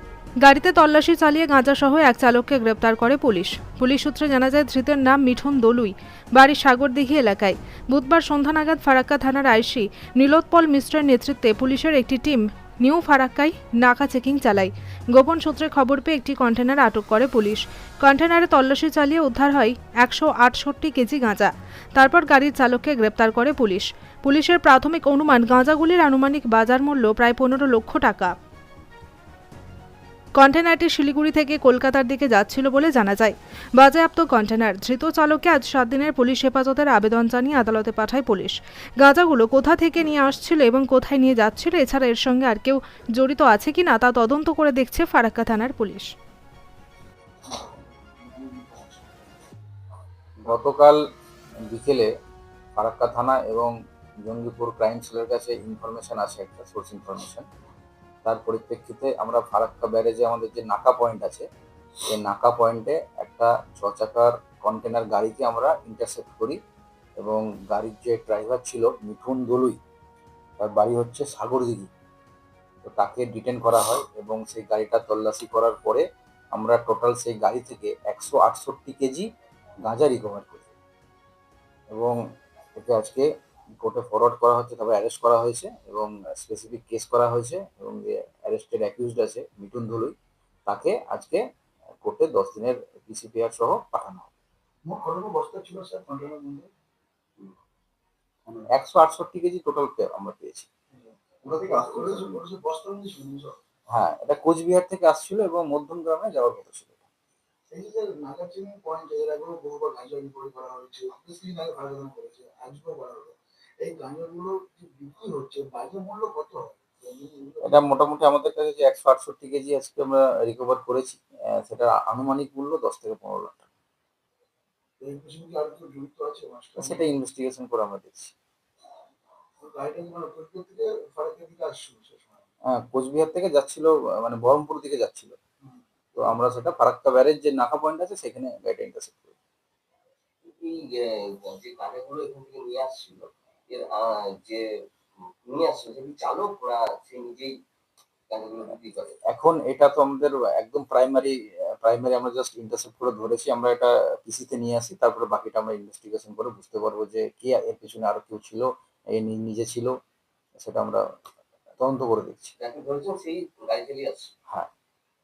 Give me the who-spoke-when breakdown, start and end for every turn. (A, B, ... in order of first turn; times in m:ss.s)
0:00.4-0:28.3 A
0:30.4-0:46.1 A
0:47.5-0:49.2 B
0:50.4-0:51.0 C
0:51.7-0:52.1 C
0:52.8-0:53.7 C
0:54.2-0:57.5 C
0:58.2-1:01.5 C
1:02.1-1:06.6 C
1:07.2-1:09.8 C
1:10.6-1:11.9 C
1:12.8-1:19.3 C
1:19.8-1:20.7 C
1:21.9-1:22.2 C
1:22.8-1:23.3 C
1:23.8-1:30.2 C
1:30.7-1:31.4 C
1:32.0-1:34.3 C
1:34.8-1:36.7 B
1:38.7-1:40.7 C
1:40.9-1:43.6 B
1:43.9-1:47.0 C
1:47.7-1:57.9 B
1:57.6-2:03.6 C
2:05.0-2:07.0 B
2:06.8-2:08.3 C
2:09.6-2:12.4 B
2:12.7-2:15.4 C
2:16.2-2:19.3 C
2:20.4-2:24.6 D
2:25.4-2:27.5 D
2:28.3-2:29.2 D
2:29.3-2:39.9 C
2:40.6-2:41.0 C
2:41.8-2:42.5 C
2:42.6-2:44.3 D